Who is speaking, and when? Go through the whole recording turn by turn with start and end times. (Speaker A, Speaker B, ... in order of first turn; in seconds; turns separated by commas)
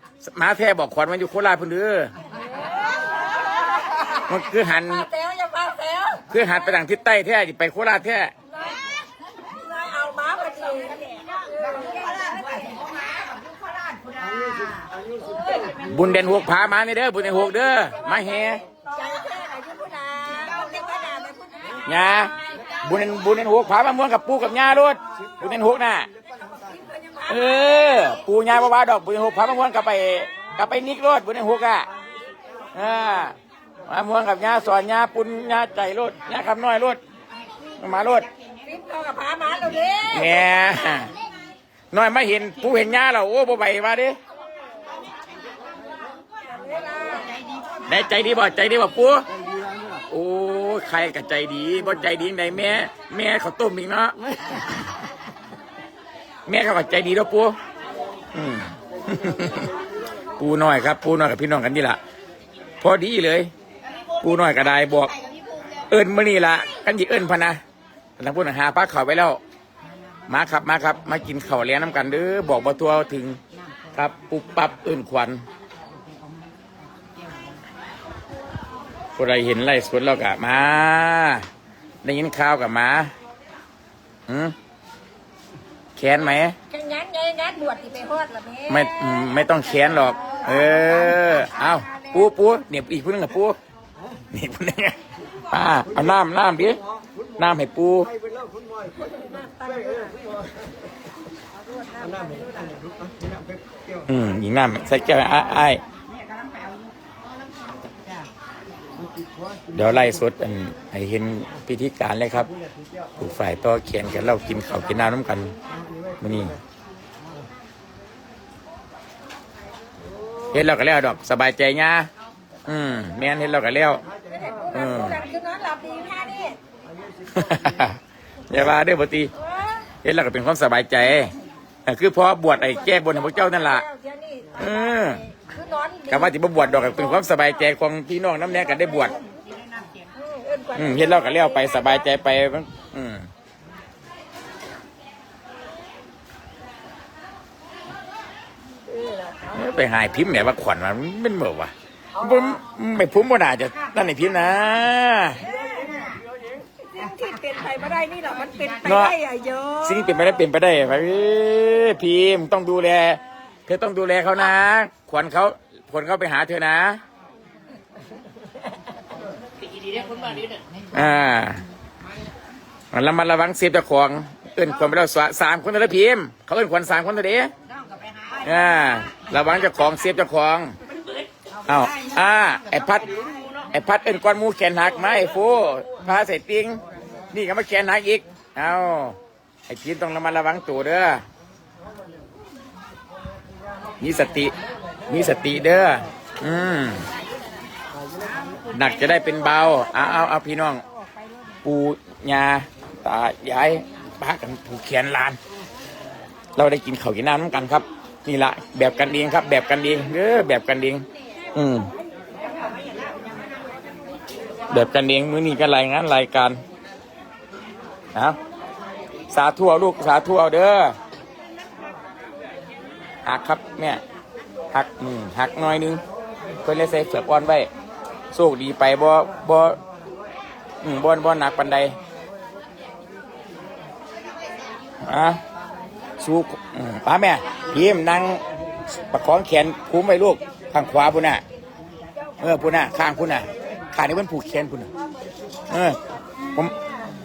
Speaker A: 0.2-2.1, Speaker B: 2.3-6.5, Speaker A: 4.2-5.1, Speaker A: 6.3-8.3, Speaker B: 8.5-14.3, Speaker C: 14.2-16.1, Speaker B: 15.2-15.8, Speaker A: 15.8-18.6, Speaker B: 18.9-22.6, Speaker A: 21.9-26.1, Speaker C: 25.0-26.8, Speaker B: 26.6-28.2, Speaker A: 27.3-31.9, Speaker A: 32.7-33.4, Speaker A: 33.9-37.0, Speaker A: 37.8-38.3, Speaker B: 38.6-41.1, Speaker A: 40.0-41.1, Speaker A: 41.9-44.2, Speaker B: 46.3-48.2, Speaker A: 47.9-49.2, Speaker C: 49.3-50.1, Speaker A: 50.1-55.0, Speaker A: 56.5-57.6, Speaker A: 58.3-59.7, Speaker C: 59.0-60.3, Speaker A: 60.4-62.0, Speaker A: 62.8-63.5, Speaker A: 64.2-65.1, Speaker B: 65.2-65.8, Speaker A: 65.9-67.6, Speaker A: 68.2-69.4, Speaker A: 70.3-73.4, Speaker A: 73.9-75.4, Speaker A: 79.2-81.5, Speaker A: 82.0-83.1, Speaker A: 84.3-84.5, Speaker A: 86.0-86.5, Speaker B: 86.7-92.3, Speaker A: 88.7-93.6, Speaker A: 94.3-95.0, Speaker A: 95.5-96.8, Speaker C: 95.8-100.8, Speaker A: 97.4-98.1, Speaker B: 99.0-100.2, Speaker B: 101.5-102.8, Speaker C: 102.0-104.1, Speaker A: 104.1-105.8, Speaker C: 109.0-110.2, Speaker A: 109.7-112.5, Speaker C: 112.5-113.2, Speaker A: 113.2-115.5, Speaker C: 115.7-116.6, Speaker A: 116.2-116.5, Speaker A: 120.5-122.1, Speaker A: 122.7-124.0, Speaker C: 124.0-124.9, Speaker B: 124.3-126.6, Speaker A: 124.7-125.2, Speaker C: 126.8-127.9, Speaker A: 127.3-128.0, Speaker A: 128.5-129.3, Speaker B: 129.4-129.9, Speaker A: 130.0-131.3, Speaker A: 131.9-133.8, Speaker B: 132.5-137.4, Speaker A: 134.6-135.2, Speaker A: 136.1-139.2, Speaker B: 140.0-142.1, Speaker A: 140.8-143.3, Speaker B: 148.9-149.6, Speaker A: 149.5-155.4, Speaker C: 155.4-156.7, Speaker B: 155.4-155.9, Speaker B: 156.9-160.1, Speaker A: 158.8-159.1, Speaker A: 159.8-167.0, Speaker A: 170.9-171.6, Speaker A: 172.9-177.5, Speaker A: 178.4-180.8, Speaker A: 181.7-183.1, Speaker A: 183.7-186.8, Speaker A: 187.3-189.2, Speaker A: 189.7-191.2, Speaker A: 194.0-194.5, Speaker A: 195.1-197.1, Speaker A: 198.7-200.8, Speaker A: 201.6-205.4, Speaker A: 206.6-211.9, Speaker B: 212.6-213.2, Speaker A: 214.7-216.6, Speaker A: 219.3-221.0, Speaker A: 223.2-224.0, Speaker A: 224.7-226.0, Speaker A: 226.6-227.7, Speaker A: 228.3-229.8, Speaker A: 230.8-231.9, Speaker A: 235.0-235.4, Speaker A: 236.2-238.4, Speaker A: 239.1-241.4, Speaker B: 242.1-242.5, Speaker A: 242.4-244.9, Speaker A: 245.7-246.0